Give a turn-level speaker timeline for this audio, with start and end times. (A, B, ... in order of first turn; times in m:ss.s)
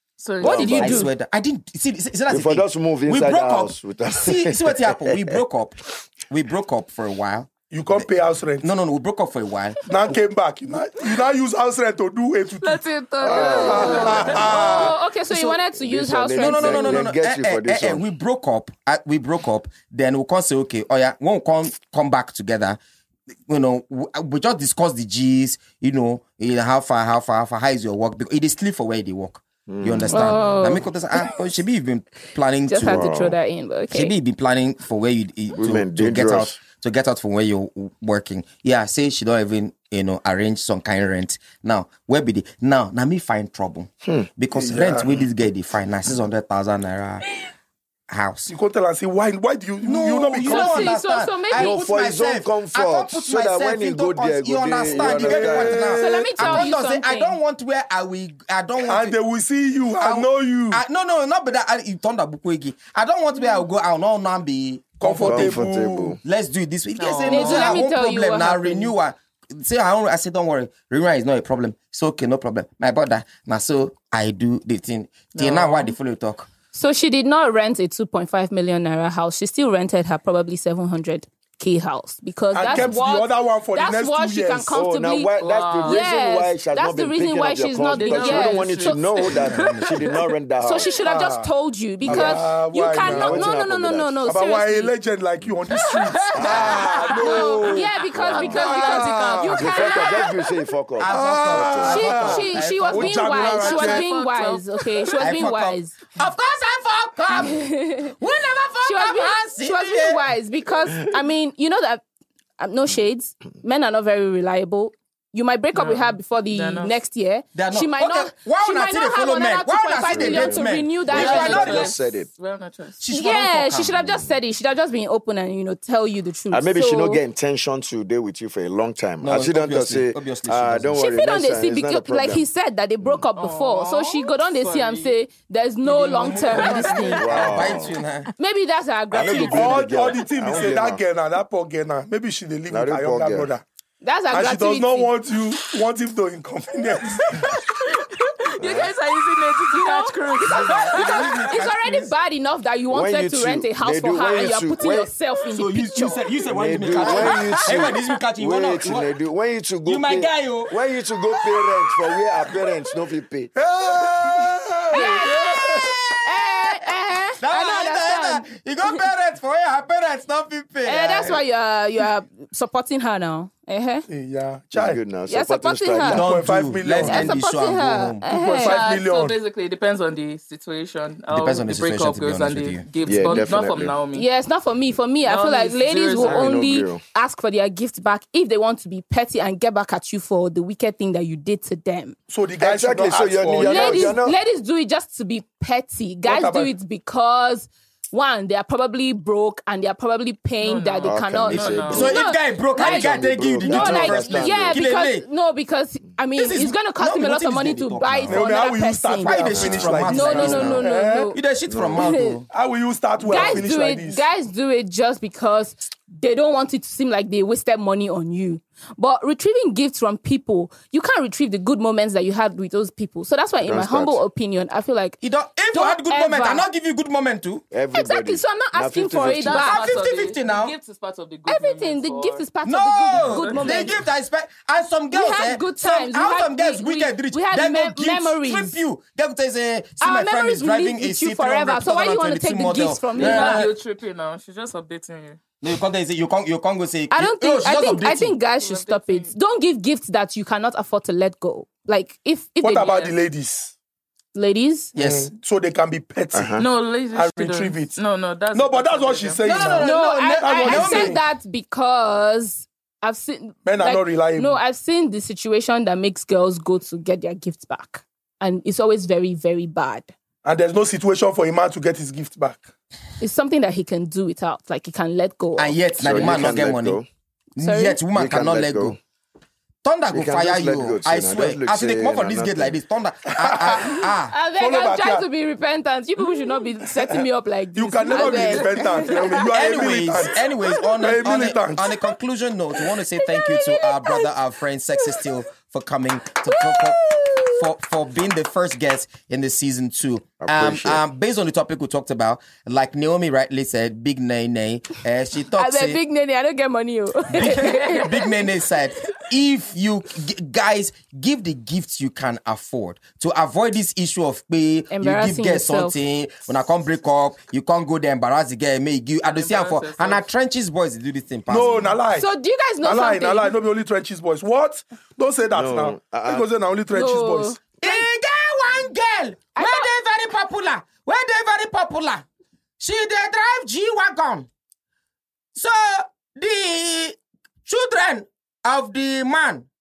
0:00.2-0:01.0 A
0:00.4-0:01.1 B
0:00.4-0:05.8 C
0:00.4-0:01.0 D
0:02.3-0:05.4 D
0:06.3-0:08.1 C
0:07.7-0:08.7 E
0:08.6-0:09.8 C
0:09.9-0:15.0 E
0:12.6-0:14.7 A
0:13.2-0:14.5 D
0:13.3-0:17.1 B
0:14.0-0:15.6 C
0:15.7-0:18.0 D
0:16.4-0:22.8 C
0:23.5-0:33.1 C
0:29.7-0:30.4 D
0:30.1-0:30.8 B
0:32.7-0:34.2 B
0:32.8-0:33.4 D
0:33.9-0:47.3 C
0:35.6-0:36.6 D
0:44.0-0:44.3 D
0:44.6-0:45.1 E
0:48.1-0:48.5 C
0:48.5-0:51.0 E
0:49.8-0:59.2 C
0:50.4-0:51.8 B
0:51.5-0:55.9 D
0:54.9-0:56.7 E
0:56.0-0:57.4 B
0:58.8-1:00.8 E
1:00.0-1:05.6 C
1:05.0-1:06.2 E
1:05.2-1:06.2 D
1:06.2-1:16.5 C
1:07.0-1:07.8 A
1:07.3-1:08.9 B
1:15.3-1:16.0 A
1:16.7-1:35.0 B
1:22.5-1:24.8 E
1:24.7-1:30.9 D
1:25.4-1:26.0 A
1:27.9-1:29.8 A
1:31.0-1:31.5 E
1:32.1-1:32.4 D
1:32.1-1:33.5 E
1:33.0-1:34.2 D
1:34.2-1:39.9 E
1:35.7-1:40.4 A
1:36.3-1:38.6 D
1:36.5-1:40.5 B
1:39.6-1:42.5 D
1:41.0-1:43.2 C
1:41.0-1:44.1 E
1:41.8-1:46.0 B
1:43.3-1:45.2 A
1:45.2-1:50.2 C
1:47.4-1:48.1 B
1:48.8-1:52.0 B
1:52.6-2:01.9 B
1:55.8-1:57.0 A
1:57.6-2:01.9 C
2:00.0-2:02.3 D
2:01.1-2:03.0 A
2:03.0-2:04.2 C
2:03.1-2:07.2 B
2:06.5-2:12.4 D
2:09.2-2:11.0 C
2:11.0-2:17.7 B
2:13.4-2:15.1 A
2:15.8-2:18.3 C
2:16.6-2:16.9 A
2:17.2-2:18.0 D
2:18.4-2:20.0 B
2:19.1-2:21.0 D
2:19.3-2:23.6 E
2:22.7-2:23.5 D
2:24.0-2:25.1 B
2:24.3-2:27.6 E
2:27.5-2:31.5 A
2:28.6-2:28.9 D
2:29.7-2:36.3 B
2:30.5-2:32.1 C
2:32.9-2:35.1 D
2:35.5-2:39.1 C
2:36.5-2:43.5 D
2:36.9-2:38.0 B
2:39.8-2:40.8 C
2:43.6-2:45.9 E
2:44.9-2:45.7 B
2:44.9-2:46.9 C
2:46.2-2:49.0 B
2:47.4-2:51.4 C
2:50.8-2:54.1 B
2:54.1-2:55.0 E
2:54.7-2:56.4 D
2:55.3-2:56.3 B
2:56.0-2:58.2 C
2:56.1-2:57.4 E
2:57.0-2:58.8 B
2:58.3-2:59.4 E
2:58.6-3:04.3 A
3:01.3-3:02.9 C
3:03.0-3:04.0 D
3:04.1-3:12.2 B
3:05.2-3:06.6 A
3:06.2-3:07.0 D
3:12.3-3:14.2 E
3:12.6-3:14.4 D
3:13.6-3:31.4 B
3:16.3-3:16.7 E
3:20.6-3:22.2 A
3:21.0-3:24.9 D
3:21.9-3:25.3 C
3:26.4-3:28.4 C
3:28.3-3:31.4 E
3:29.2-3:32.5 C
3:29.6-3:30.0 D
3:31.7-3:32.1 D
3:31.9-3:32.4 B
3:32.5-3:34.2 E
3:33.2-3:45.2 B
3:33.3-3:33.6 D
3:43.6-3:44.2 D
3:45.2-3:47.6 C
3:45.7-3:46.7 B
3:47.7-3:49.7 D
3:47.9-3:49.9 B
3:49.4-3:52.4 A
3:49.4-3:50.8 C
3:51.5-3:54.0 B
3:52.6-4:03.7 C
3:53.2-3:54.0 A
3:55.1-3:58.8 B
4:00.0-4:03.7 B
4:03.2-4:05.4 A
4:05.6-4:08.4 C
4:07.1-4:13.2 B
4:08.6-4:09.3 A
4:12.6-4:13.7 E
4:14.4-4:14.9 B
4:15.0-4:15.3 C
4:15.0-4:18.0 E
4:16.3-4:16.6 D
4:16.6-4:19.4 A
4:18.5-4:21.2 E
4:19.4-4:21.2 C
4:19.8-4:30.1 B
4:23.6-4:24.6 E
4:30.4-4:32.7 E
4:33.2-4:35.8 B
4:35.6-4:37.0 C
4:36.0-4:37.1 D
4:37.6-4:39.0 C
4:37.6-4:38.0 B
4:38.1-4:39.0 D
4:39.8-4:44.3 C
4:40.1-4:42.8 D
4:43.4-4:44.0 E
4:44.3-4:49.5 B
4:44.6-4:45.3 E
4:47.8-4:50.4 E
4:48.2-4:48.6 C
4:49.5-5:06.0 C
4:51.0-4:51.9 E
4:53.2-4:54.3 B
4:56.4-4:57.6 B
5:00.4-5:01.0 D
5:05.6-5:08.4 B
5:07.3-5:22.0 C
5:14.9-5:16.0 B
5:19.2-5:20.2 A
5:21.5-5:22.3 E
5:22.1-5:23.6 B
5:22.8-5:27.6 E
5:25.5-5:26.5 D
5:26.9-5:28.0 B
5:27.8-5:32.2 C
5:29.6-5:29.9 B
5:32.8-5:34.5 C
5:35.6-5:39.7 C